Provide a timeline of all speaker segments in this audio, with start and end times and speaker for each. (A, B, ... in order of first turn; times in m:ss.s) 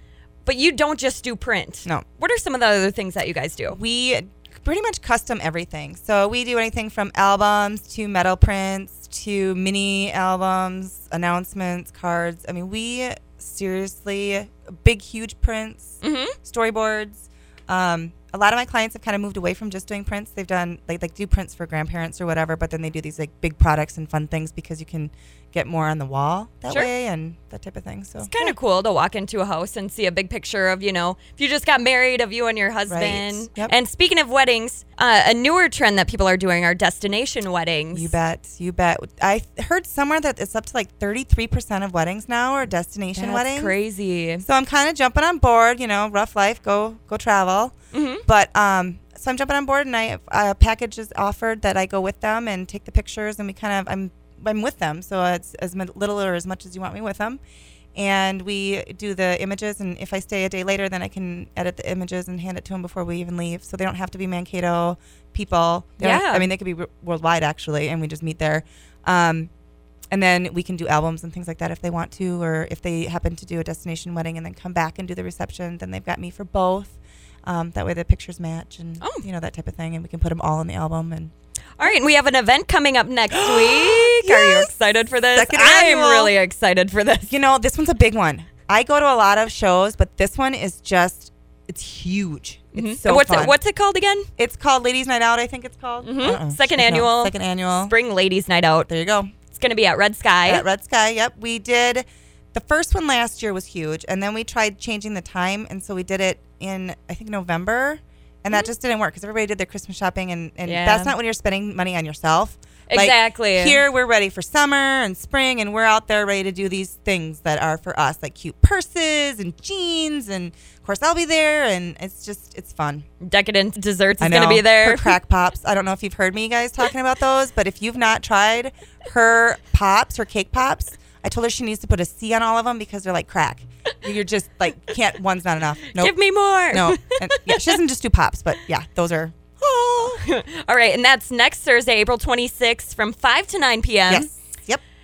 0:00.4-0:03.8 A
0:03.7-0:28.5 B
0:16.0-0:16.4 A
0:28.2-0:38.1 A
0:32.9-0:33.7 B
0:37.9-0:43.8 B
0:43.2-0:44.4 A
0:44.4-0:57.4 B
0:47.9-0:48.2 A
0:58.0-1:09.5 B
1:06.0-1:06.5 A
1:10.1-1:21.3 B
1:21.8-1:27.3 A
1:23.3-1:24.7 B
1:25.3-1:26.4 B
1:27.3-1:33.6 B
1:32.7-1:34.3 A
1:34.4-1:37.9 B
1:36.0-1:38.9 A
1:38.9-1:39.3 B
1:39.5-1:40.6 A
1:40.4-2:03.1 B
1:50.6-1:51.1 A
1:52.9-1:53.8 A
2:03.2-2:05.2 A
2:04.2-2:16.2 B
2:15.9-2:17.8 A
2:16.7-2:20.2 B
2:19.6-2:24.3 A
2:24.1-2:24.8 B